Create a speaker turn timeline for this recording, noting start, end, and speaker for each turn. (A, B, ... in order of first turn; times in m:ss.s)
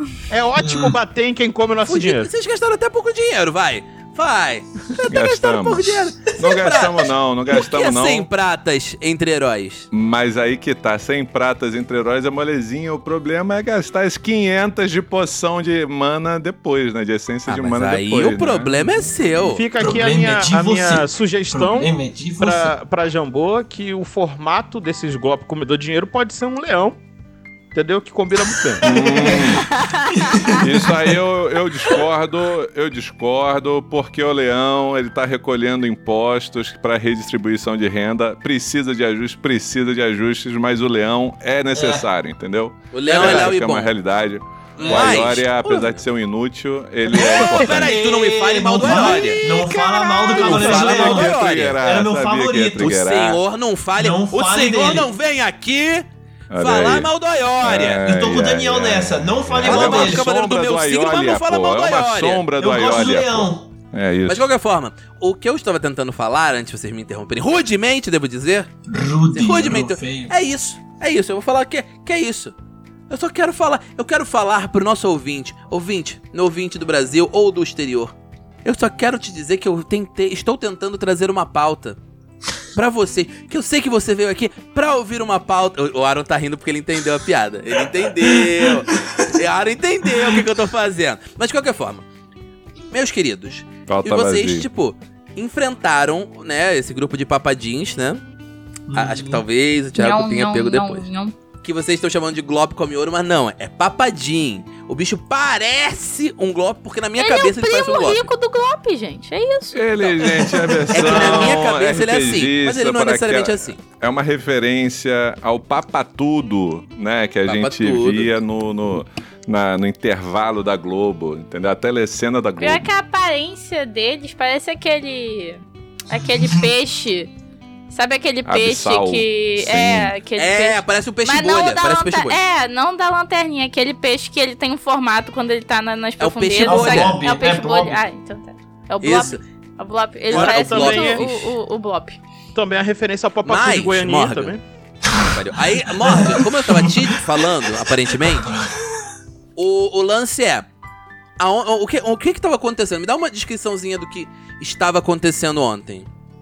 0:00.3-0:02.3 A
0:00.6-0:00.9 B
0:01.8-0:09.9 C
0:05.0-0:08.3 D
0:09.9-0:19.0 D
0:17.5-0:19.6 C
0:19.4-0:27.0 A
0:19.8-0:22.7 B
0:27.7-0:29.1 A
0:28.8-0:29.8 D
0:28.8-0:30.9 B
0:29.6-0:30.6 E
0:30.6-0:48.0 D
0:41.7-0:42.0 B
0:42.9-0:43.9 C
0:43.1-0:43.5 A
0:44.8-0:45.4 B
0:44.8-0:46.0 C
0:47.1-0:49.7 C
0:47.1-0:53.0 B
0:48.8-0:50.7 E
0:50.3-0:51.8 C
0:50.4-0:53.4 D
0:52.8-0:56.0 C
0:54.0-0:55.1 B
0:56.5-0:57.1 D
0:56.6-0:58.0 C
0:57.6-1:04.4 D
0:58.0-1:00.3 B
0:59.6-1:02.4 C
1:02.6-1:03.7 B
1:04.3-1:08.7 C
1:08.9-1:10.3 B
1:09.3-1:12.5 C
1:13.1-1:18.1 C
1:18.6-1:22.0 C
1:22.7-1:32.0 C
1:28.2-1:28.9 B
1:32.9-1:38.2 C
1:33.9-1:34.7 D
1:38.9-1:39.4 B
1:38.9-1:41.1 C
1:40.0-1:41.3 E
1:41.6-1:48.3 C
1:47.2-1:50.5 E
1:49.7-2:02.9 D
1:50.8-1:51.6 B
1:50.9-1:53.8 C
1:57.4-1:58.3 C
2:02.6-2:07.3 E
2:07.9-2:22.2 E
2:08.4-2:10.1 D
2:10.4-2:12.4 C
2:16.2-2:17.2 C
2:16.6-2:18.0 B
2:19.0-2:19.4 C
2:20.3-2:21.5 C
2:20.3-2:21.2 A
2:22.5-2:24.6 A
2:23.4-2:24.5 C
2:25.1-2:28.6 C
2:26.0-2:27.1 B
2:28.3-2:28.8 B
2:29.6-2:30.6 C
2:31.4-2:36.1 C